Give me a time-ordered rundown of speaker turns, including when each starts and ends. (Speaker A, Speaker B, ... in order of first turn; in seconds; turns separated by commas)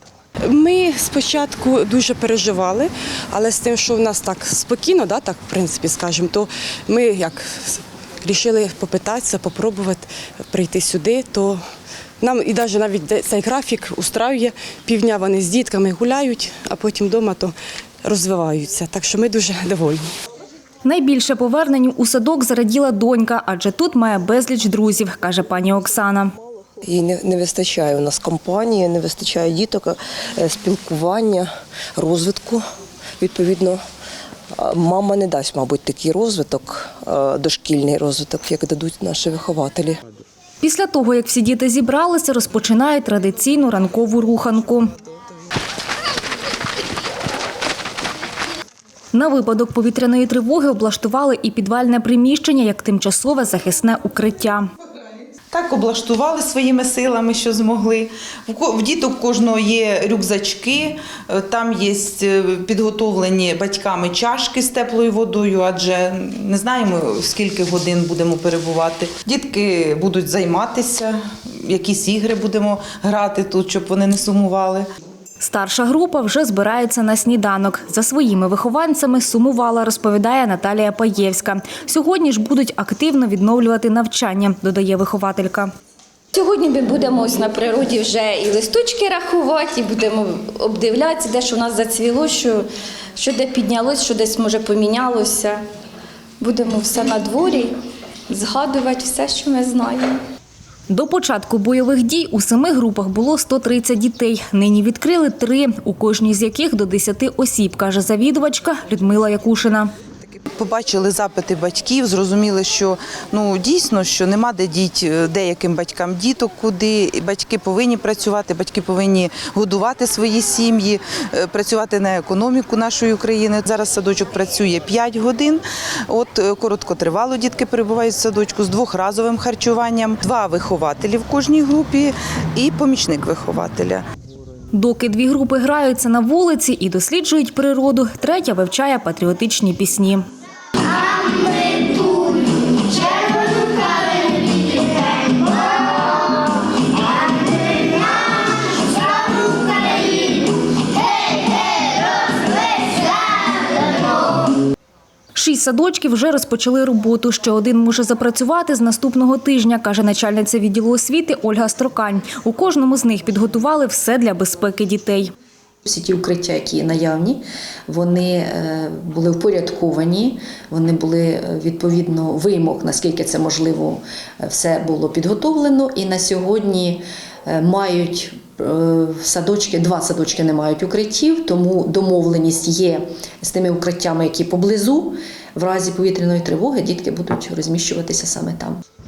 Speaker A: 0.4-11.6, Speaker A: 12.2-20.1, Speaker B: 20.8-26.3, Speaker C: 26.8-32.6, Speaker C: 33.2-33.8, Speaker C: 34.5-40.0, Speaker B: 40.6-44.9, Speaker B: 49.1-54.7, Speaker D: 55.5-74.8, Speaker B: 75.4-85.7, Speaker E: 86.3-92.7, Speaker E: 93.2-95.6, Speaker E: 96.4-97.7, Speaker E: 98.3-100.2, Speaker B: 100.9-109.9, Speaker D: 110.6-134.0, Speaker B: 134.7-140.2, Speaker B: 155.3-165.3, Speaker F: 165.8-188.8